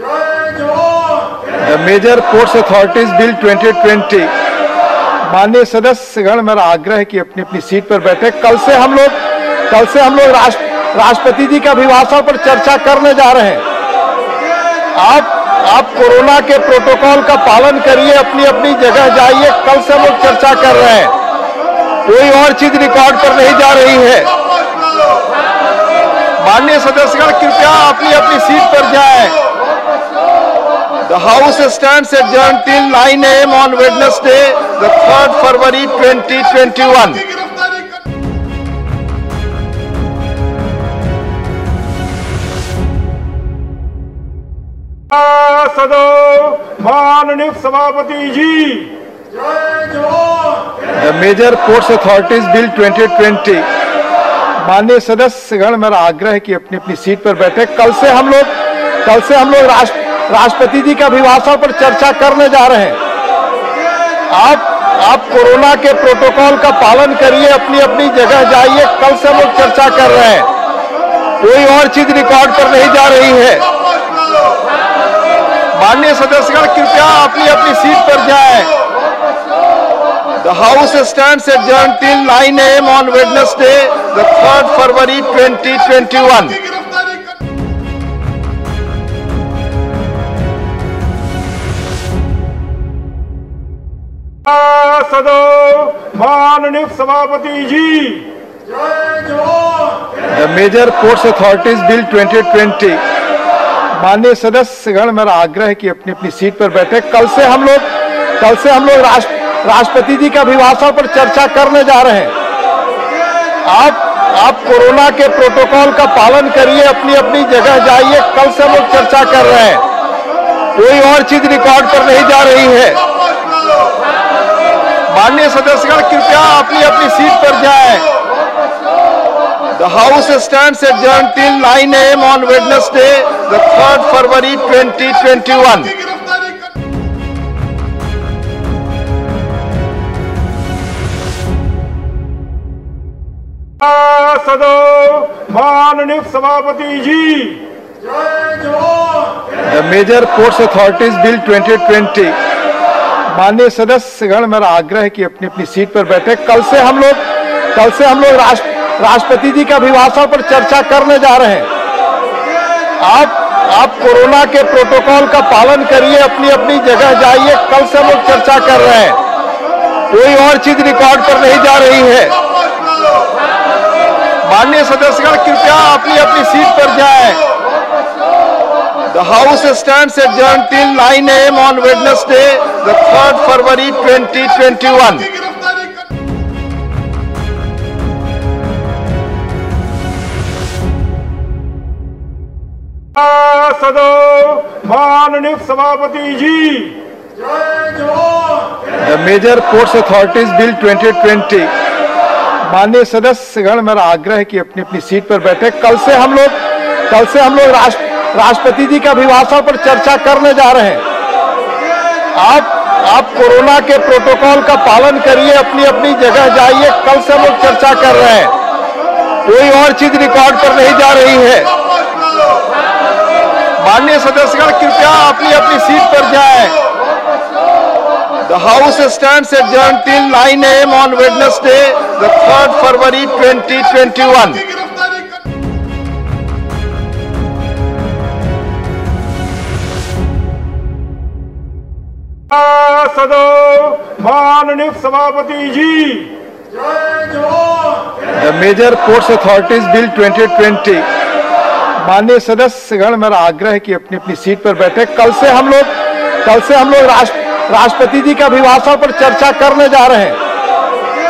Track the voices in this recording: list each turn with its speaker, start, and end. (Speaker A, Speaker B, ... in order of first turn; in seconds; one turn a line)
Speaker A: 0.4-1.0
Speaker B: 1.6-4.3
Speaker B: 5.2-13.6
Speaker B: 14.9-21.1
Speaker B: 22.0-24.3
Speaker B: 26.4-29.4
Speaker B: 31.0-37.4
Speaker A: 45.1-49.0
Speaker A: 49.7-50.4
Speaker B: 51.0-53.7
Speaker B: 54.6-63.0
Speaker B: 64.3-70.5
Speaker B: 71.4-73.7
Speaker B: 75.7-78.7
Speaker B: 80.4-86.8
Speaker A: 94.5-98.3
Speaker A: 99.0-99.8
Speaker B: 100.3-103.0
Speaker B: 103.9-112.3
Speaker B: 113.6-119.8
Speaker B: 120.7-123.0
Speaker B: 125.1-128.1
Speaker B: 129.7-136.1
Speaker A: 143.8-147.7
Speaker B: 145.0-146.5
Speaker A: 148.4-149.1
Speaker B: 149.7-152.4
Speaker B: 153.3-161.7
Speaker B: 163.0-169.2
Speaker B: 170.1-172.3
Speaker B: 174.4-177.4
Speaker B: 179.1-185.5
Speaker A: 193.2-197.0
Speaker B: 194.4-195.8
Speaker A: 197.7-198.5
Speaker B: 199.0-201.7
Speaker B: 202.6-211.0
Speaker B: 212.3-218.5
Speaker B: 219.4-221.7
Speaker B: 223.8-226.8
Speaker B: 228.4-234.8
Speaker A: 242.5-246.4
Speaker B: 243.8-245.0
Speaker A: 247.1-247.8
Speaker B: 248.3-251.1
Speaker B: 252.0-260.4